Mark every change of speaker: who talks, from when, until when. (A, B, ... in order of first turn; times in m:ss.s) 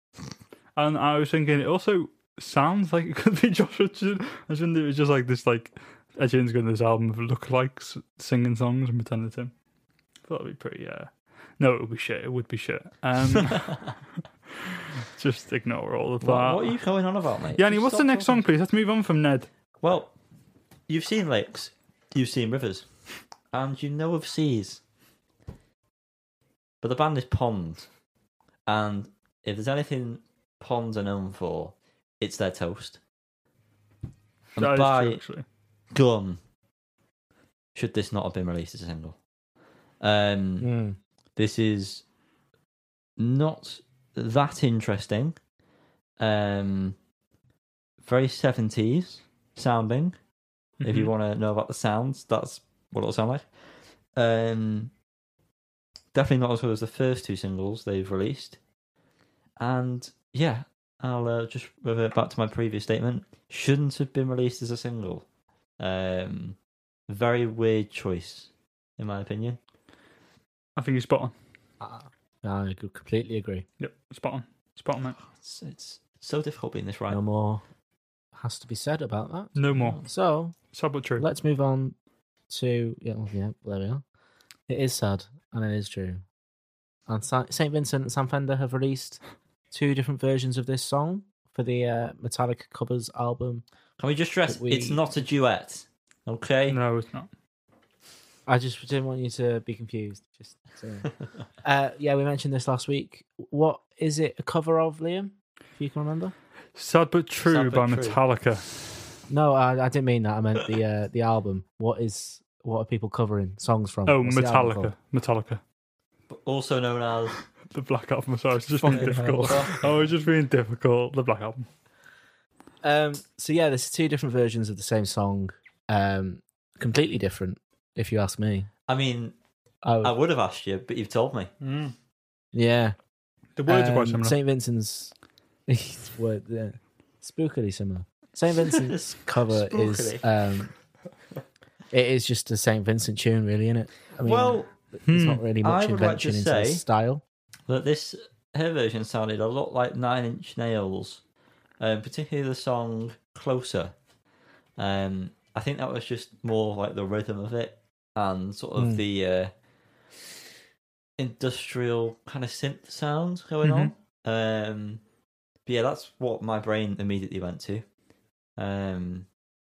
0:00.8-0:09.6 A
0:10.2-0:14.0 A
0:15.0-0:16.8 A
0:16.2-0:18.4 B
0:17.6-0:19.5 A
0:19.8-0:20.1 B
0:20.9-0:22.9 B
0:23.5-0:24.8 B
0:26.8-0:27.9 B
0:28.7-0:33.0 B
0:34.6-0:35.2 B
0:34.6-0:35.4 A
0:35.9-0:36.4 B
0:37.8-0:39.2 B
0:40.0-0:40.7 B
0:40.6-0:41.0 C
0:41.4-0:42.0 B
0:43.2-0:45.4 B
0:46.2-0:47.0 B
0:48.0-0:50.2 B
0:50.8-0:51.1 A
0:50.8-0:53.5 B
0:54.1-0:54.9 B
0:56.1-0:58.6 B
0:59.6-1:05.3 B
1:05.8-1:06.6 B
1:07.1-1:09.6 B
1:10.8-1:11.3 A
1:11.8-1:13.7 C
1:13.8-1:15.2 A
1:15.2-1:17.2 B
1:17.1-1:17.6 C
1:18.3-1:20.6 C
1:19.6-1:20.0 A
1:20.7-1:21.2 A
1:21.2-1:22.0 C
1:22.5-1:24.0 C
1:24.7-1:26.2 C
1:27.1-1:29.2 C
1:29.7-1:33.6 C
1:34.0-1:36.8 B
1:34.5-1:35.0 C
1:36.7-1:37.3 A
1:38.5-1:46.3 C
1:46.8-1:49.0 A
1:47.5-1:48.2 B
1:49.3-1:54.9 C
1:54.1-1:55.6 A
1:56.3-1:57.4 B
1:57.7-2:01.7 A
1:58.8-2:00.0 B
1:58.9-1:59.7 C
2:02.8-2:08.7 C
2:08.9-2:09.4 B
2:09.8-2:10.1 C
2:10.0-2:11.5 B
2:11.6-2:11.9 A
2:12.5-2:13.0 C
2:13.6-2:14.4 A
2:13.7-2:15.2 C
2:15.7-2:20.7 C
2:18.7-2:20.3 B
2:21.9-2:27.2 C
2:24.2-2:24.7 B
2:25.1-2:25.4 A
2:25.6-2:26.8 B
2:27.7-2:31.2 B
2:31.8-2:34.0 B
2:34.8-2:39.5 B
2:38.8-2:39.0 C
2:41.2-2:45.0 B
2:43.6-2:43.9 A
2:45.7-2:47.8 B
2:48.6-2:49.3 B